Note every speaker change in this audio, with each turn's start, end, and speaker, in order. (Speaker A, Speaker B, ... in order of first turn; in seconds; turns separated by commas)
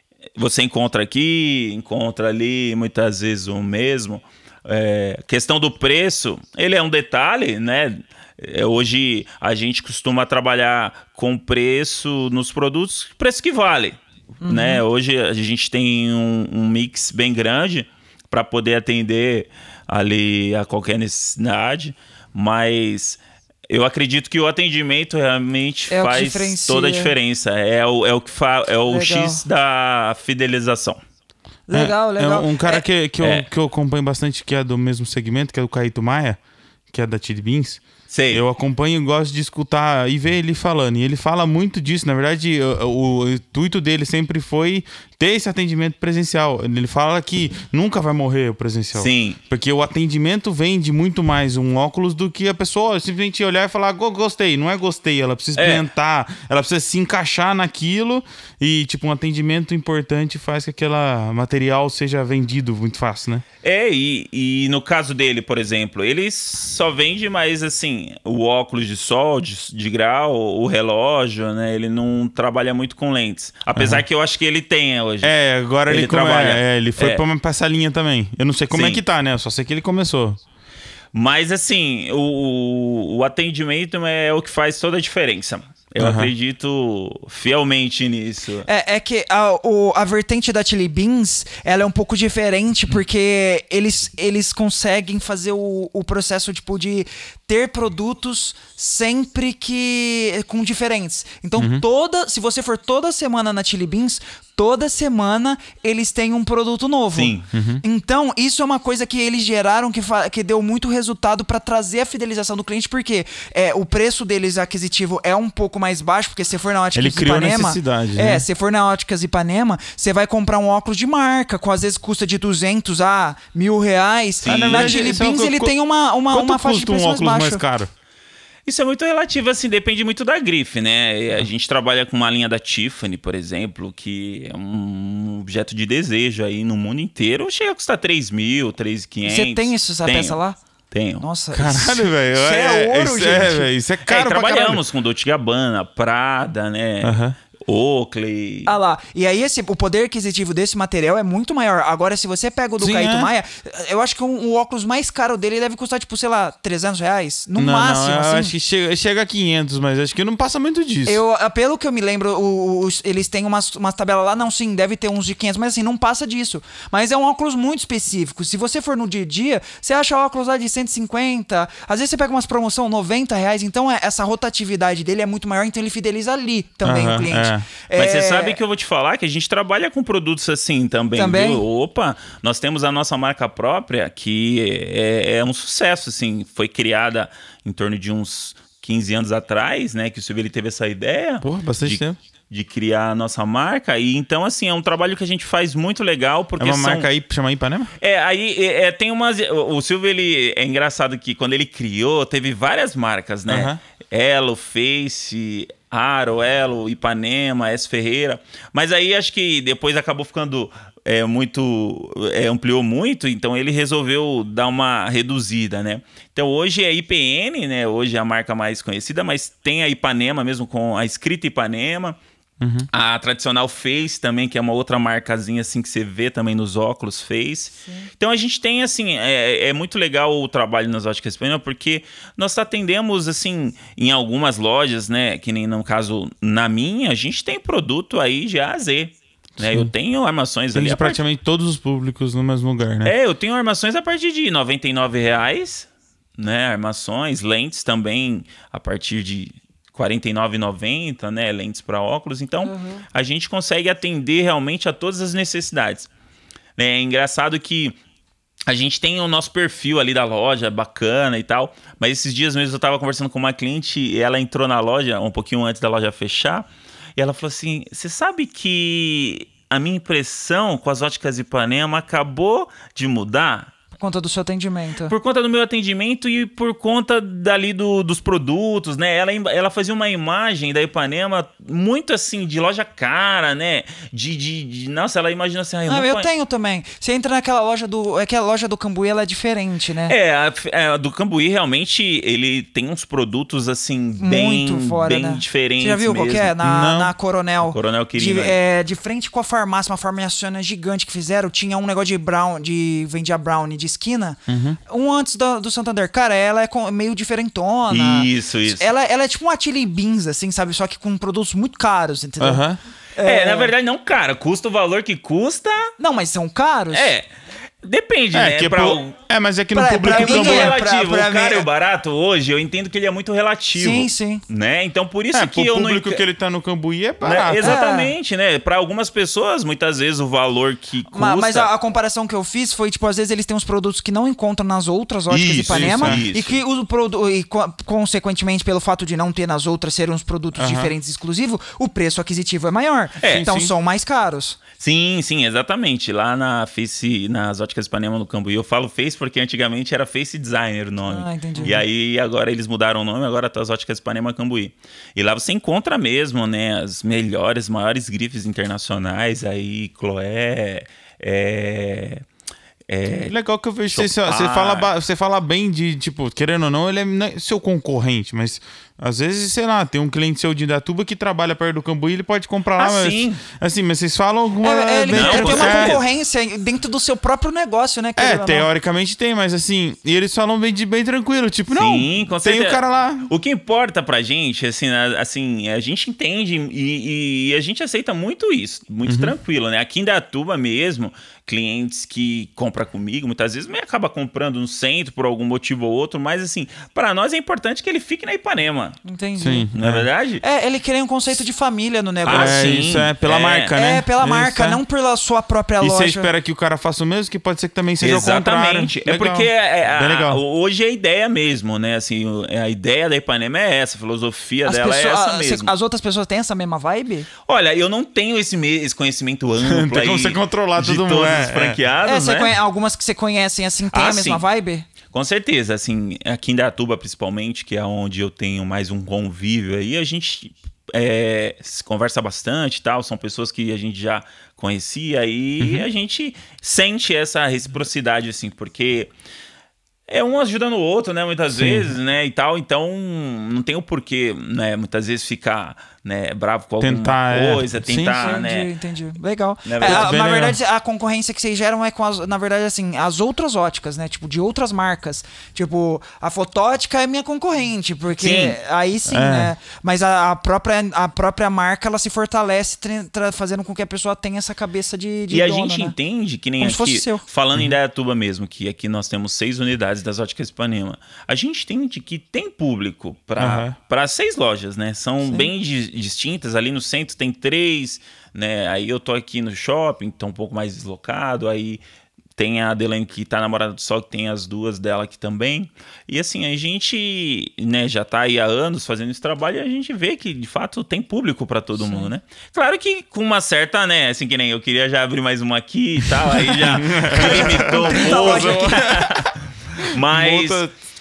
Speaker A: 0.4-31.0, Speaker B: 14.4-14.8, Speaker B: 25.9-27.1, Speaker B: 28.9-29.4, Speaker B: 31.7-32.8, Speaker C: 31.7-36.4, Speaker A: 33.2-33.5, Speaker C: 36.9-63.4, Speaker A: 38.1-38.4, Speaker A: 49.0-49.4, Speaker A: 55.5-55.8, Speaker A: 63.6-75.3, Speaker C: 73.8-74.0, Speaker C: 75.2-80.4, Speaker A: 75.9-77.2, Speaker A: 78.7-79.0, Speaker A: 81.1-88.7, Speaker C: 86.0-86.3, Speaker B: 88.6-127.6, Speaker C: 101.6-101.8, Speaker A: 107.1-107.5, Speaker C: 107.5-107.8, Speaker C: 117.0-118.4, Speaker A: 124.4-125.0, Speaker C: 124.5-125.7, Speaker C: 126.3-127.9, Speaker A: 128.7-140.4, Speaker B: 139.2-140.6, Speaker A: 140.9-141.2, Speaker B: 141.2-143.7, Speaker C: 141.5-144.8, Speaker A: 144.1-148.7, Speaker C: 147.0-147.4, Speaker B: 148.7-158.5, Speaker C: 152.8-153.3, Speaker C: 157.6-161.2, Speaker B: 161.1-178.6, Speaker C: 176.8-177.7, Speaker A: 177.9-197.1, Speaker B: 181.1-181.6, Speaker C: 191.4-192.2, Speaker C: 196.6-197.9, Speaker A: 198.0-222.2, Speaker C: 203.5-203.8, Speaker C: 222.6-222.9, Speaker A: 222.9-241.2, Speaker C: 239.6-239.9, Speaker C: 240.7-243.1, Speaker A: 243.0-256.1, Speaker B: 252.7-253.0, Speaker A: 256.8-257.9, Speaker A: 258.7-273.7, Speaker B: 274.0-275.1, Speaker A: 275.1-286.3, Speaker B: 285.9-290.1, Speaker A: 290.1-296.6, Speaker B: 294.2-312.6, Speaker C: 296.6-297.1, Speaker A: 297.7-298.6, Speaker C: 304.5-304.8, Speaker A: 307.9-308.9, Speaker C: 312.4-312.8, Speaker B: 313.1-313.7, Speaker A: 313.2-315.9, Speaker B: 316.0-317.1, Speaker A: 316.9-317.3, Speaker A: 317.8-319.1, Speaker C: 318.3-320.8, Speaker B: 319.7-321.7, Speaker A: 320.1-326.2, Speaker B: 323.7-324.4, Speaker C: 325.3-327.8, Speaker A: 327.2-331.7, Speaker B: 327.6-328.1, Speaker B: 331.1-344.6, Speaker A: 335.3-336.6, Speaker C: 335.6-336.2, Speaker C: 340.6-340.9, Speaker A: 343.2-343.5, Speaker C: 343.3-343.7, Speaker A: 344.8-362.2, Speaker B: 351.1-351.8, Speaker A: 362.9-363.3, Speaker C: 363.3-376.0, Speaker A: 363.9-364.9, Speaker A: 372.8-373.4, Speaker B: 374.6-378.7, Speaker A: 375.1-376.1, Speaker C: 378.2-383.3, Speaker A: 381.7-399.0, Speaker C: 389.1-389.3, Speaker B: 399.0-399.7, Speaker C: 399.4-400.1, Speaker A: 399.7-400.4, Speaker B: 400.4-402.8, Speaker A: 402.2-403.8, Speaker C: 402.2-404.8, Speaker B: 403.7-406.3, Speaker C: 405.8-410.4, Speaker A: 408.0-415.7, Speaker B: 414.6-417.3, Speaker A: 417.4-422.5, Speaker C: 419.6-421.8, Speaker B: 422.0-424.9, Speaker A: 423.9-424.4, Speaker A: 425.1-439.1, Speaker C: 435.6-435.9, Speaker A: 440.1-448.7, Speaker C: 441.5-441.9, Speaker C: 446.8-448.4, Speaker B: 448.1-465.9, Speaker A: 449.6-450.1, Speaker C: 449.8-450.6, Speaker A: 458.2-458.6, Speaker C: 459.1-459.5, Speaker A: 465.3-481.8, Speaker B: 466.6-467.2, Speaker C: 473.4-473.7, Speaker B: 475.2-475.5, Speaker A: 482.4-500.6, Speaker B: 491.8-492.1, Speaker C: 496.5-500.7, Speaker B: 497.1-498.9